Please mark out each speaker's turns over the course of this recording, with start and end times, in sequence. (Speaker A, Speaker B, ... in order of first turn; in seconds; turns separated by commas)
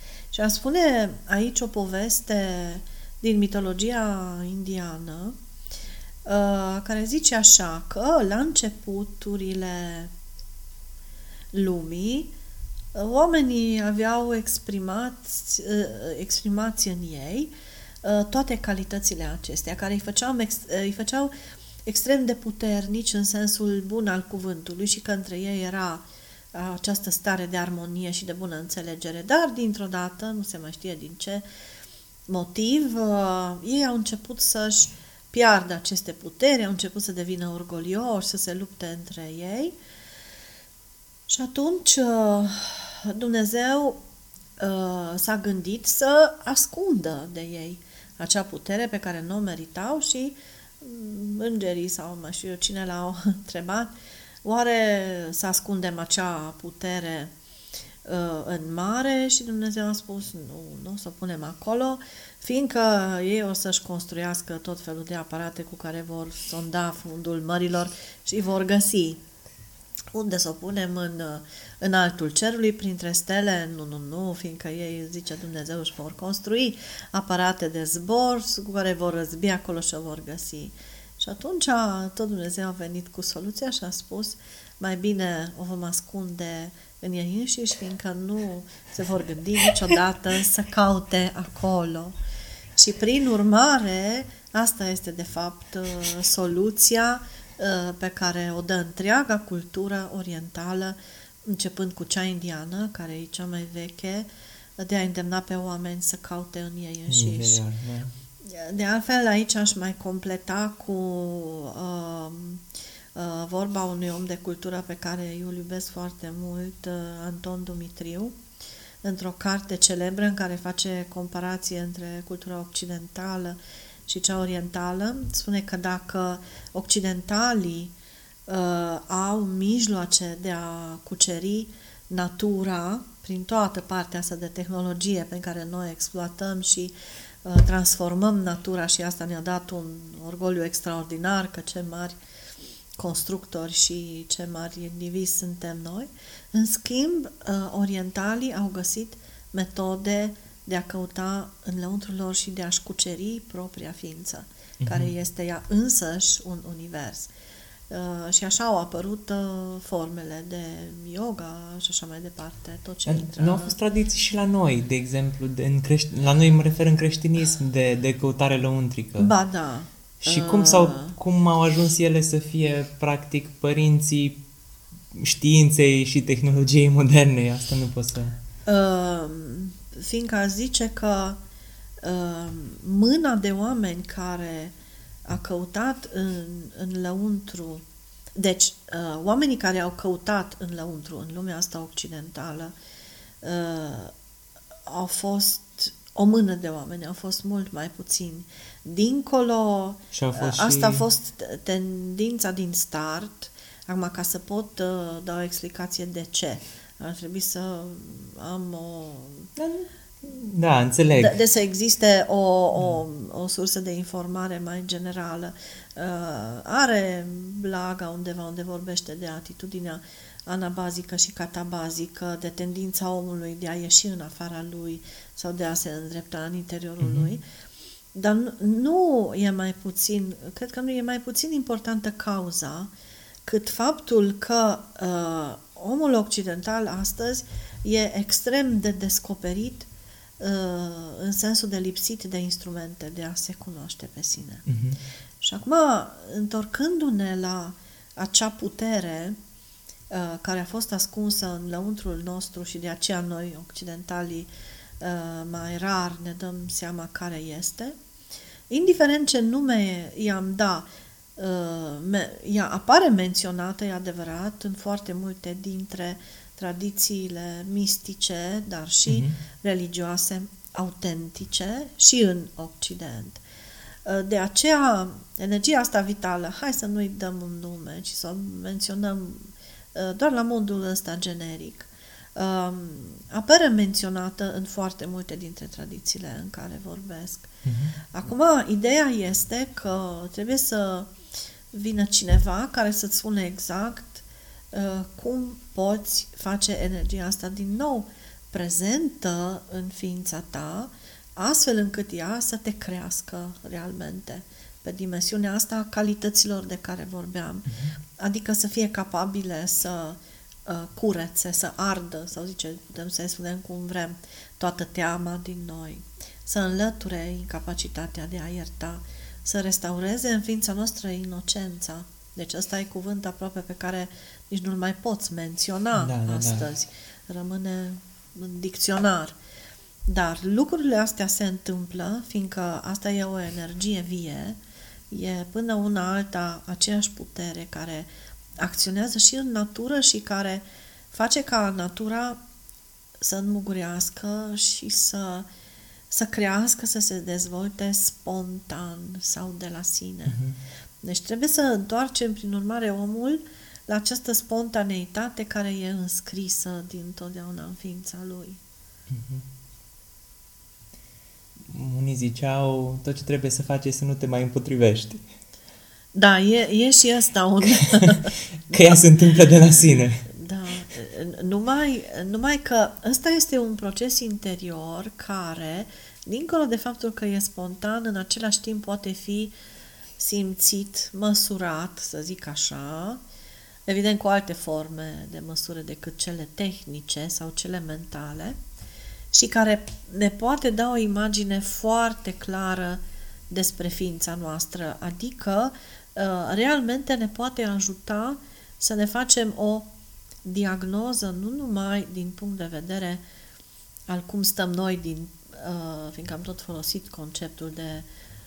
Speaker A: 0.3-5.4, Speaker A: 6.2-10.1, Speaker A: 11.5-12.3, Speaker A: 12.9-17.5, Speaker A: 18.0-21.3, Speaker A: 21.8-31.4, Speaker A: 32.3-39.7, Speaker A: 41.3-44.0, Speaker A: 44.6-53.9, Speaker A: 54.4-57.3, Speaker A: 58.0-69.2, Speaker A: 70.1-92.2, Speaker A: 92.8-107.6, Speaker B: 107.1-108.1, Speaker A: 108.4-118.4, Speaker A: 119.0-127.9, Speaker A: 128.5-136.9, Speaker A: 137.4-142.2, Speaker A: 142.9-157.3, Speaker B: 154.8-155.1, Speaker A: 157.9-163.8, Speaker B: 163.1-169.3, Speaker A: 169.2-171.2, Speaker B: 170.2-174.4, Speaker B: 175.1-178.4, Speaker A: 178.7-181.4, Speaker A: 182.0-184.7, Speaker A: 185.2-192.7, Speaker A: 193.4-194.1, Speaker A: 194.9-209.5, Speaker B: 200.1-201.1, Speaker B: 209.6-211.4, Speaker A: 211.2-227.4, Speaker B: 227.0-227.3, Speaker A: 228.1-232.9, Speaker A: 233.4-239.9, Speaker A: 240.4-244.6, Speaker B: 244.7-245.0, Speaker A: 245.4-249.4, Speaker A: 250.1-258.0, Speaker A: 258.7-273.4, Speaker B: 269.1-269.4, Speaker A: 274.0-287.5, Speaker B: 287.6-288.0, Speaker A: 288.1-291.1, Speaker A: 291.7-329.4, Speaker B: 307.7-308.0, Speaker B: 325.9-326.7, Speaker A: 330.1-334.6, Speaker A: 335.1-342.4, Speaker A: 343.2-345.5, Speaker A: 346.1-350.4, Speaker B: 350.2-350.6, Speaker A: 351.0-358.6, Speaker B: 359.1-359.4, Speaker B: 361.7-365.2, Speaker A: 366.1-369.0, Speaker B: 367.9-370.2, Speaker A: 370.3-379.5, Speaker A: 380.2-383.2, Speaker A: 383.9-388.6, Speaker A: 389.3-399.9, Speaker A: 400.4-403.2, Speaker A: 404.1-408.1